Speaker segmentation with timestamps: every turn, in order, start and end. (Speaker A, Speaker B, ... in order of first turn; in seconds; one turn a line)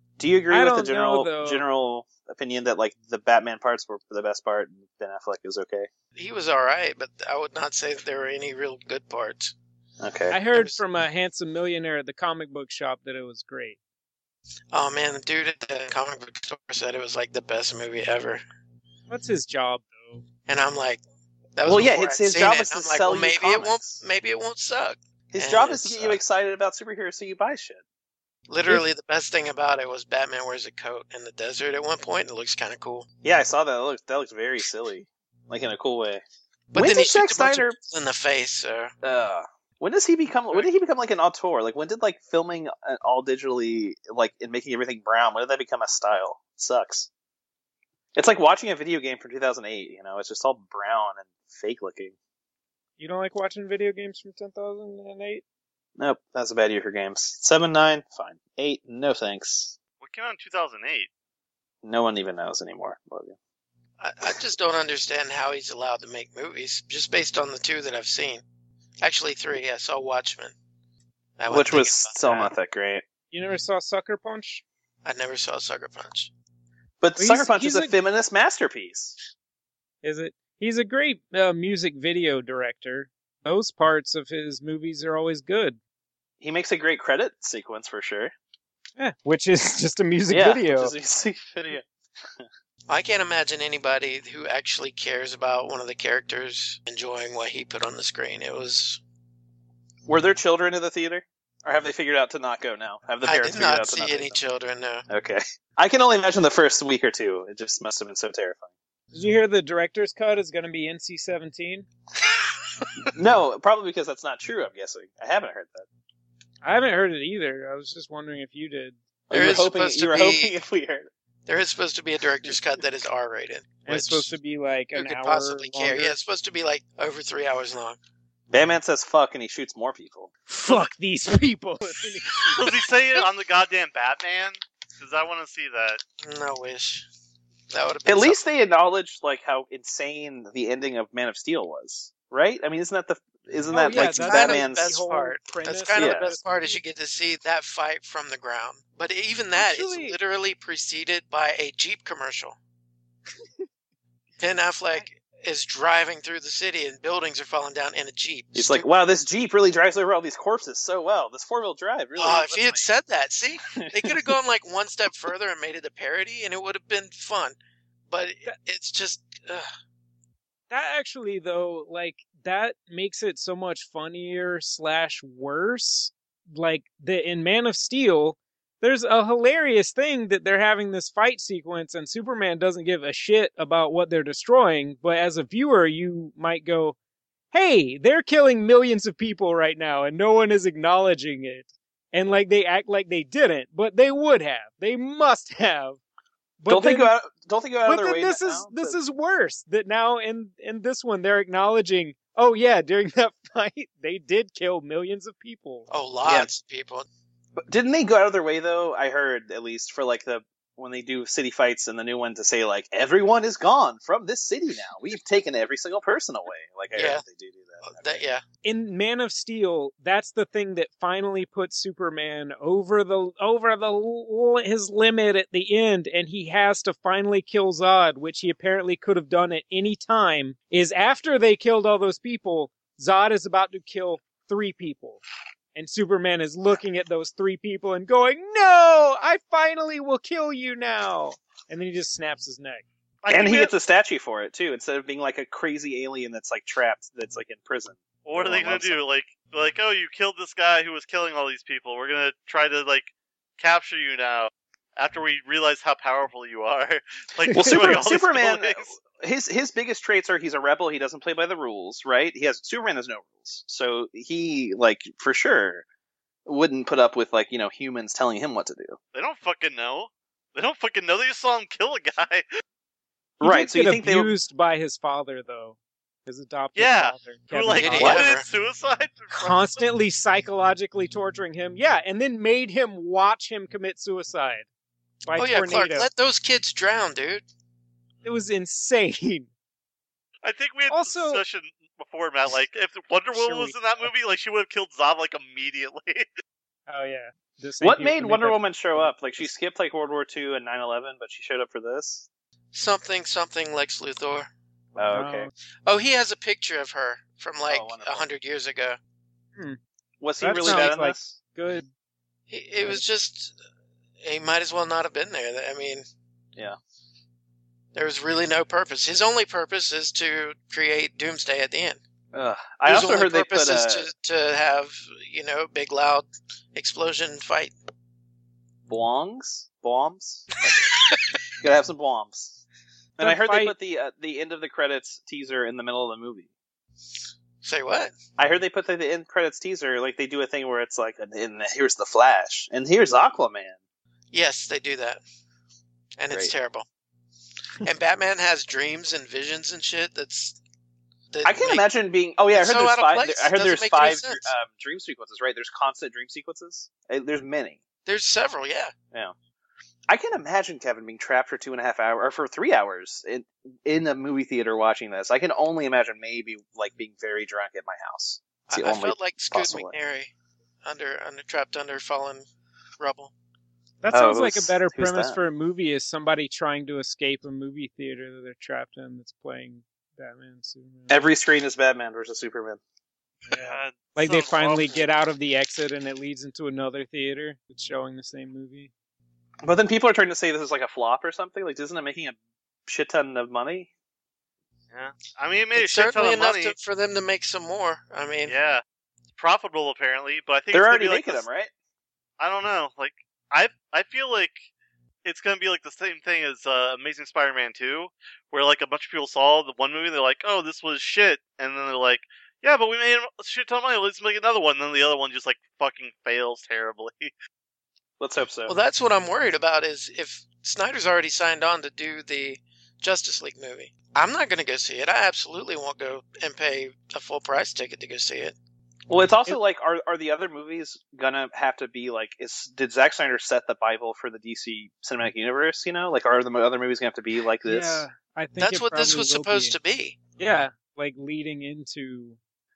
Speaker A: 0.2-5.9
Speaker B: 0.5-1.6
Speaker C: 6.2-9.5
Speaker A: 10.0-10.4
Speaker B: 10.3-13.8
Speaker C: 10.5-10.8
Speaker C: 14.7-18.4
Speaker B: 19.1-20.2
Speaker C: 20.5-21.0
Speaker C: 21.6-26.2
Speaker A: 21.6-24.0
Speaker A: 25.3-27.8
Speaker C: 28.5-33.1
Speaker A: 33.2-36.2
Speaker C: 36.7-38.9
Speaker A: 36.7-37.8
Speaker A: 39.0-47.1
Speaker A: 48.1-52.1
Speaker B: 53.0-55.4
Speaker A: 56.0-59.8
Speaker D: 60.0-61.1
Speaker A: 61.8-63.4
Speaker C: 64.0-68.4
Speaker C: 69.0-70.5
Speaker C: 71.4-72.5
Speaker A: 71.5-73.0
Speaker B: 73.3-74.6
Speaker C: 75.0-76.3
Speaker A: 77.0-79.2
Speaker B: 77.2-77.9
Speaker B: 80.0-85.8
Speaker A: 86.4-88.3
Speaker B: 89.0-90.9
Speaker A: 90.3-91.8
Speaker C: 92.9-99.0
Speaker A: 100.0-104.4
Speaker C: 103.2-105.0
Speaker A: 105.1-108.7
Speaker B: 109.1-111.9
Speaker A: 113.1-115.9
Speaker B: 116.6-119.0
Speaker A: 119.3-121.1
Speaker C: 119.3-120.5
Speaker C: 121.5-124.3
Speaker B: 123.8-126.2
Speaker C: 124.9-128.0
Speaker A: 128.5-130.3
Speaker B: 130.5-132.7
Speaker D: 132.5-136.0
Speaker C: 136.2-137.1
Speaker C: 137.7-138.4
Speaker A: 138.1-145.0
Speaker B: 143.7-146.8
Speaker C: 143.9-152.6
Speaker A: 145.9-146.3
Speaker B: 149.6-150.1
Speaker C: 154.4-158.9
Speaker A: 158.5-162.9
Speaker C: 162.2-167.6
Speaker A: 163.8-164.3
Speaker C: 168.1-169.7
Speaker B: 170.7-187.0
Speaker B: 187.5-196.0
Speaker B: 196.6-197.1
Speaker A: 196.7-199.0
Speaker B: 197.8-205.9
Speaker C: 205.9-207.1
Speaker A: 206.2-206.5
Speaker A: 207.6-218.2
Speaker C: 216.9-217.2
Speaker C: 217.8-218.4
Speaker B: 218.6-235.2
Speaker B: 235.7-242.8
Speaker D: 243.2-243.7
Speaker A: 243.3-249.0
Speaker D: 248.2-258.9
Speaker B: 257.4-258.0
Speaker A: 257.5-265.8
Speaker A: 266.4-269.0
Speaker D: 269.1-272.4
Speaker A: 273.4-274.3
Speaker B: 273.4-278.2
Speaker D: 276.8-279.6
Speaker C: 277.8-278.4
Speaker A: 278.0-278.2
Speaker B: 279.3-284.6
Speaker B: 285.2-286.1
Speaker C: 285.3-287.4
Speaker B: 288.2-289.5
Speaker D: 290.4-296.2
Speaker B: 290.9-291.4
Speaker B: 293.3-294.1
Speaker B: 296.9-299.5
Speaker A: 297.8-302.3
Speaker C: 302.7-304.5
Speaker A: 304.9-305.5
Speaker B: 305.1-305.5
Speaker C: 305.9-309.0
Speaker A: 307.7-308.3
Speaker A: 310.2-311.4
Speaker B: 310.4-311.9
Speaker C: 312.5-313.6
Speaker C: 314.2-316.0
Speaker C: 317.9-322.0
Speaker A: 322.3-324.1
Speaker C: 322.9-327.7
Speaker A: 328.9-330.9
Speaker C: 330.7-331.1
Speaker A: 331.6-332.6
Speaker A: 333.2-336.5
Speaker B: 333.2-333.7
Speaker C: 337.6-338.1
Speaker A: 338.4-343.8
Speaker C: 344.3-345.2
Speaker C: 346.2-346.8
Speaker C: 347.8-350.6
Speaker C: 351.3-351.8
Speaker A: 351.4-357.8
Speaker C: 352.5-354.5
Speaker C: 358.1-358.9
Speaker A: 360.1-369.9
Speaker C: 368.7-370.3
Speaker C: 370.8-372.4
Speaker C: 373.0-373.3
Speaker B: 374.0-381.2
Speaker A: 374.1-375.4
Speaker A: 381.1-382.8
Speaker D: 383.5-385.0
Speaker B: 383.5-388.9
Speaker A: 389.6-393.9
Speaker D: 394.9-396.8
Speaker C: 395.8-398.5
Speaker D: 398.4-398.8
Speaker D: 399.4-401.4
Speaker A: 400.7-401.7
Speaker D: 402.4-404.6
Speaker D: 405.2-417.3
Speaker A: 418.2-418.7
Speaker C: 418.7-428.6
Speaker A: 429.1-438.1
Speaker B: 437.6-439.7
Speaker C: 438.6-440.2
Speaker B: 440.4-442.4